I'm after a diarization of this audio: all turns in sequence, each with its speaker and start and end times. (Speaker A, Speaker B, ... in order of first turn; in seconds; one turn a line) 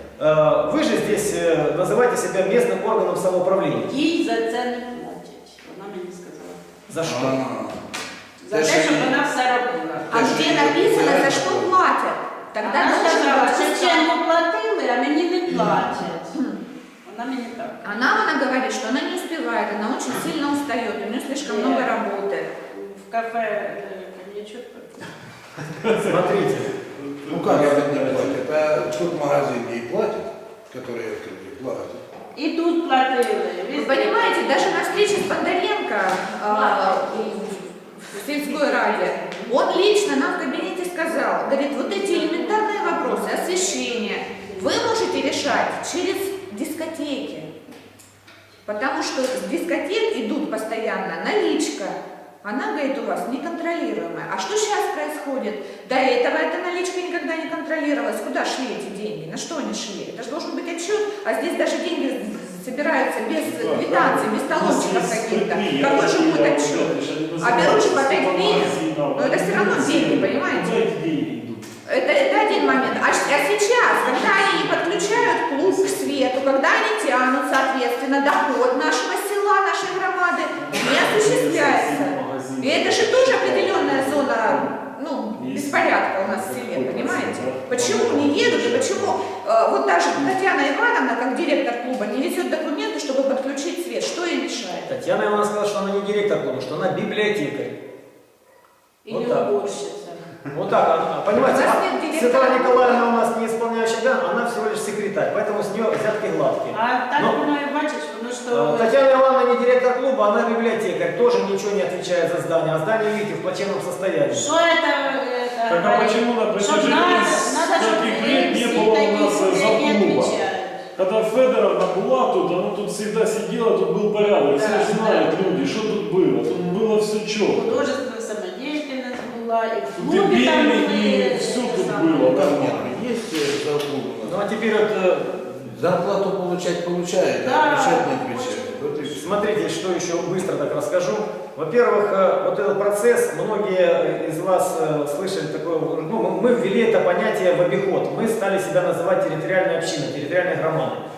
Speaker A: 0.2-3.9
Speaker B: 3.9-6.6
Speaker A: 6.9-7.4
Speaker C: 7.0-7.9
Speaker B: 8.4-10.4
Speaker C: 8.5-9.2
Speaker C: 10.1-11.7
Speaker D: 10.1-14.1
Speaker B: 12.6-16.4
Speaker B: 17.1-18.0
Speaker D: 17.8-22.5
Speaker B: 21.4-21.9
Speaker B: 22.7-25.1
Speaker E: 25.8-26.3
Speaker A: 25.9-26.7
Speaker E: 27.0-28.4
Speaker C: 27.3-32.0
Speaker B: 32.4-35.0
Speaker D: 33.8-47.5
Speaker B: 36.5-40.7
Speaker B: 41.9-44.8
Speaker D: 48.7-70.9
Speaker E: 63.4-76.5
Speaker D: 71.9-94.9
Speaker E: 80.6-84.7
Speaker E: 85.4-89.3
Speaker A: 94.9-97.8
Speaker B: 99.0-100.3
Speaker A: 99.1-99.5
Speaker A: 100.5-107.4
Speaker D: 101.4-103.1
Speaker B: 106.7-109.0
Speaker A: 108.5-114.5
Speaker B: 114.3-120.8
Speaker E: 115.7-120.4
Speaker E: 121.0-127.8
Speaker B: 124.5-125.5
Speaker B: 127.5-132.5
Speaker E: 129.9-132.9
Speaker C: 132.3-134.5
Speaker A: 134.2-135.8
Speaker C: 135.7-139.4
Speaker B: 137.4-139.2
Speaker A: 139.2-151.0